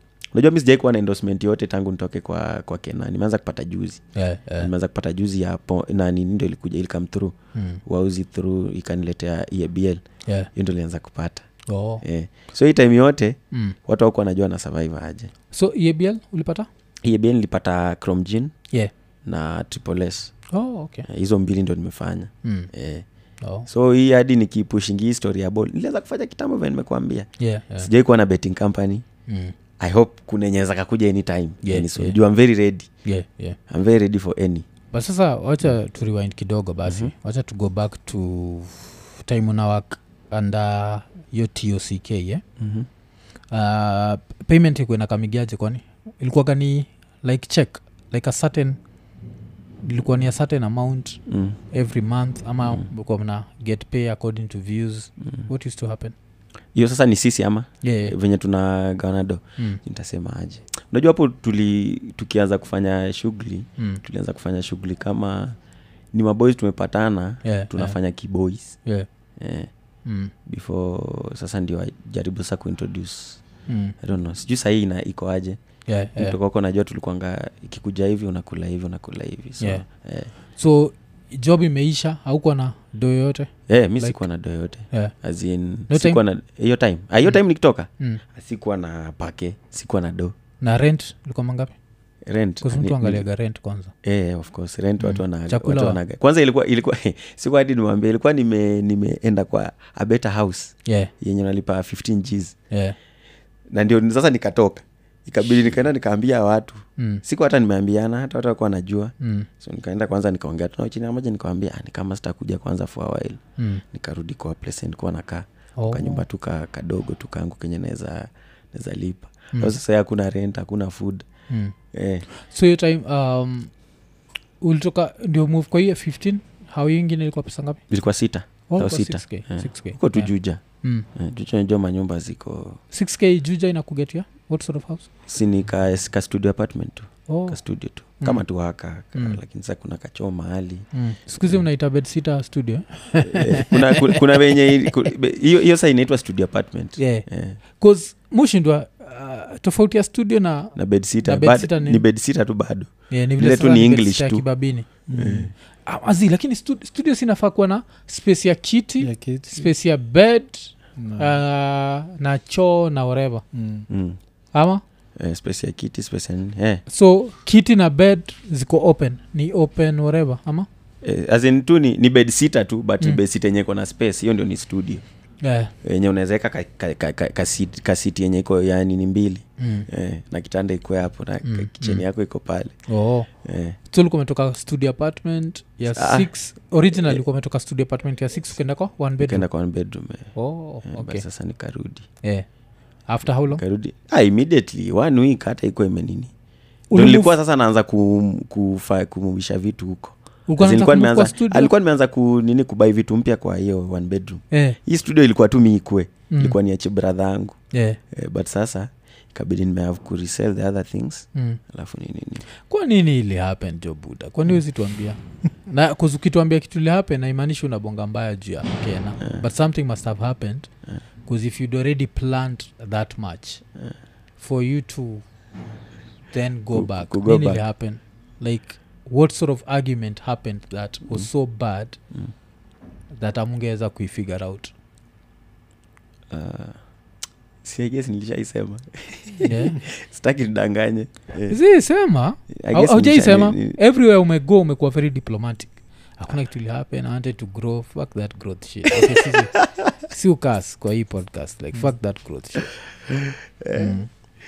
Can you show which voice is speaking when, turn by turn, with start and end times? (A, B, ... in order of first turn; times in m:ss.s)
0:00.3-0:04.0 A
0:04.1-0:04.7 B
0:04.6-0:10.0 A
0:07.5-0:07.8 B
0:10.5-0:11.4 A
0:11.7-0:12.0 B
0:12.0-0:15.3 A
0:15.5-0:16.7 B
0:17.0-0:18.5 A
0:19.2-0:20.3 A
0:20.5-0:21.1 B
0:21.1-0:23.0 A
0:22.4-0:22.7 B
0:23.4-0:23.7 B
0:23.7-0:29.0 A
0:27.4-0:27.9 B
0:29.3-0:29.5 B
0:29.8-0:32.9 A
0:31.6-0:32.2 B
0:33.0-0:33.6 B
0:33.7-0:34.7 A
0:34.9-0:42.4 B
0:36.8-0:37.1 A
0:42.6-0:42.9 A
0:43.5-0:48.8 B
0:49.8-0:51.2 B
0:51.3-0:51.6 A
0:51.7-0:56.1 B
0:56.7-1:05.6 A
0:57.8-0:58.2 B
1:03.8-1:04.0 B
1:06.1-1:08.8 A
1:07.4-1:08.0 B
1:09.4-1:09.7 A
1:10.0-1:10.3 B
1:10.4-1:13.4 A
1:13.7-1:14.0 B
1:14.0-1:15.6 A
1:15.9-1:16.4 B
1:16.2-1:20.3 A
1:20.5-1:24.2 B
1:23.7-1:30.3 A
1:25.9-1:26.2 B
1:30.6-1:31.7 B
1:32.2-1:33.2 A
1:32.6-1:33.9 B
1:34.0-1:42.5 A
1:35.0-1:36.0 B
1:40.8-1:41.1 B
1:42.7-1:43.0 B
1:43.7-2:01.2 A
1:47.0-1:47.2 B
1:49.2-1:49.5 B
1:53.6-1:53.8 B
1:55.8-1:56.2 B
2:01.5-2:01.7 B
2:01.9-2:02.2 A
2:02.3-2:03.7 B
2:04.6-2:07.8 B
2:07.9-2:10.6 A
2:08.7-2:10.3 B
2:10.8-2:11.1 B
2:11.1-2:12.8 A
2:12.9-2:15.1 B
2:15.3-2:20.8 A
2:17.3-2:17.6 B
2:20.9-2:24.5 B
2:23.2-2:27.6 A
2:27.0-2:27.2 B
2:27.8-2:32.0 B
2:30.8-2:34.4 A
2:33.1-2:34.9 B
2:35.1-2:35.5 C
2:35.1-2:35.5 A
2:35.8-2:43.4 B
2:39.0-2:39.7 C
2:41.0-2:41.4 C
2:43.5-2:43.9 C
2:43.9-2:44.2 A
2:44.5-2:44.8 B
2:45.2-2:46.8 A
2:46.9-2:50.7 B
2:51.0-2:55.0 A
2:55.4-2:55.7 B
2:55.8-3:02.7 A
2:59.6-2:59.9 B
3:01.4-3:02.0 B
3:02.9-3:03.3 B
3:03.4-3:03.8 A
3:03.9-3:09.5 B
3:05.9-3:06.3 A
3:06.9-3:07.2 A
3:09.2-3:10.3 A
3:10.3-3:11.2 B
3:10.8-3:12.1 A
3:13.1-3:13.6 B
3:13.5-3:16.3 A
3:16.9-3:17.3 B
3:16.9-3:27.6 A
3:20.5-3:21.7 B
3:24.5-3:24.8 B
3:26.3-3:26.6 B
3:27.7-3:28.0 B
3:28.1-3:32.4 A
3:31.3-3:31.6 B
3:32.7-3:40.7 B
3:41.2-3:43.6 B
3:44.4-3:45.2 B
3:46.3-3:52.0 B
3:46.7-3:47.6 A
3:53.1-3:54.7 B
3:56.3-3:56.8 A
3:57.6-4:01.6 A
3:59.4-3:59.8 B
4:01.5-4:12.7 B
4:02.6-4:03.8 A
4:08.9-4:09.9 A
4:13.1-4:14.0 A
4:13.7-4:14.1 B